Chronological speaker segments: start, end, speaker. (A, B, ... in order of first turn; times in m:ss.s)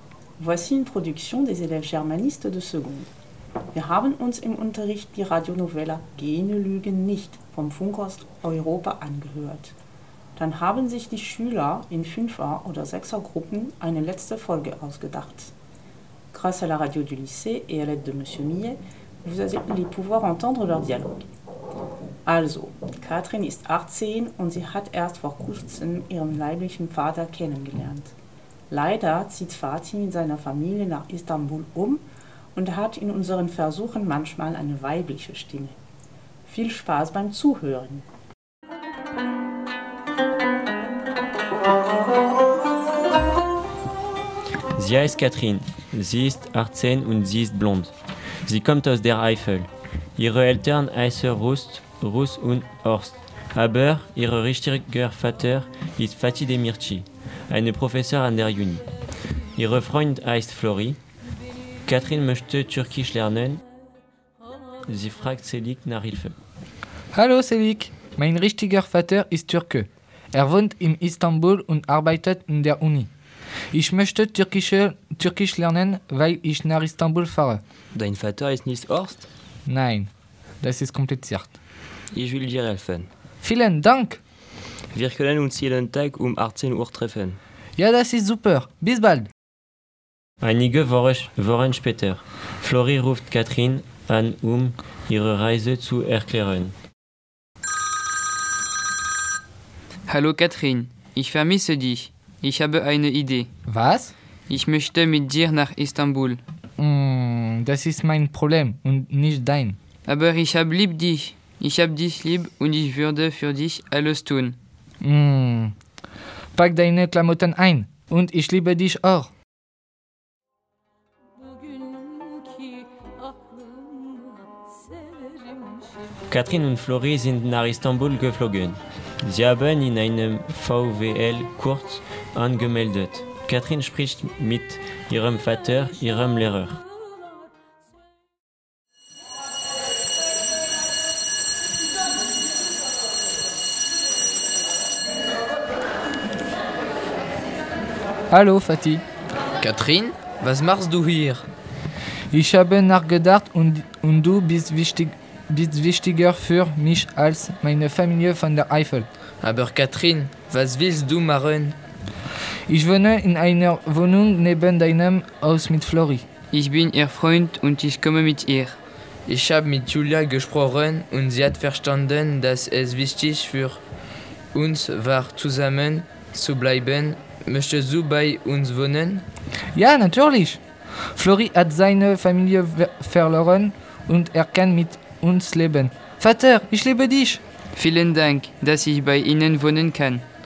0:00.4-0:03.1 A
0:03.7-0:09.8 A
0:10.4-0:15.5 A
0:16.3-0:21.2 A
0:22.3-0:28.1 A
0:28.7-0:32.0 A
0:32.6-0:35.8 A
0:36.5-0:38.1 A
0:44.8-0:58.9 B
0:59.6-1:01.0 B
1:01.8-1:03.6 B
1:04.8-1:06.4 B
1:07.1-1:13.1 C
1:13.7-1:17.6 C
1:17.9-1:19.3 D
1:19.7-1:20.1 C
1:20.6-1:21.6 C
1:22.1-1:23.1 D
1:23.4-1:24.2 C
1:24.9-1:27.4 D
1:27.8-1:29.3 C
1:30.4-1:36.7 B
1:40.1-1:43.5 E
1:43.7-1:44.1 C
1:44.5-1:46.4 E
1:46.8-1:49.8 C
1:50.1-1:54.6 E
1:55.0-1:55.7 C
1:56.6-1:59.3 C
2:06.3-2:16.8 B
2:28.3-2:29.0 C
2:29.6-2:31.5 F
2:32.3-2:39.1 C
2:39.4-2:41.8 F
2:42.7-2:46.2 C
2:46.5-2:48.8 E
2:49.3-2:53.8 F
2:54.5-2:59.2 F
2:59.8-3:00.6 C
3:01.2-3:07.4 C
3:07.8-3:10.2 E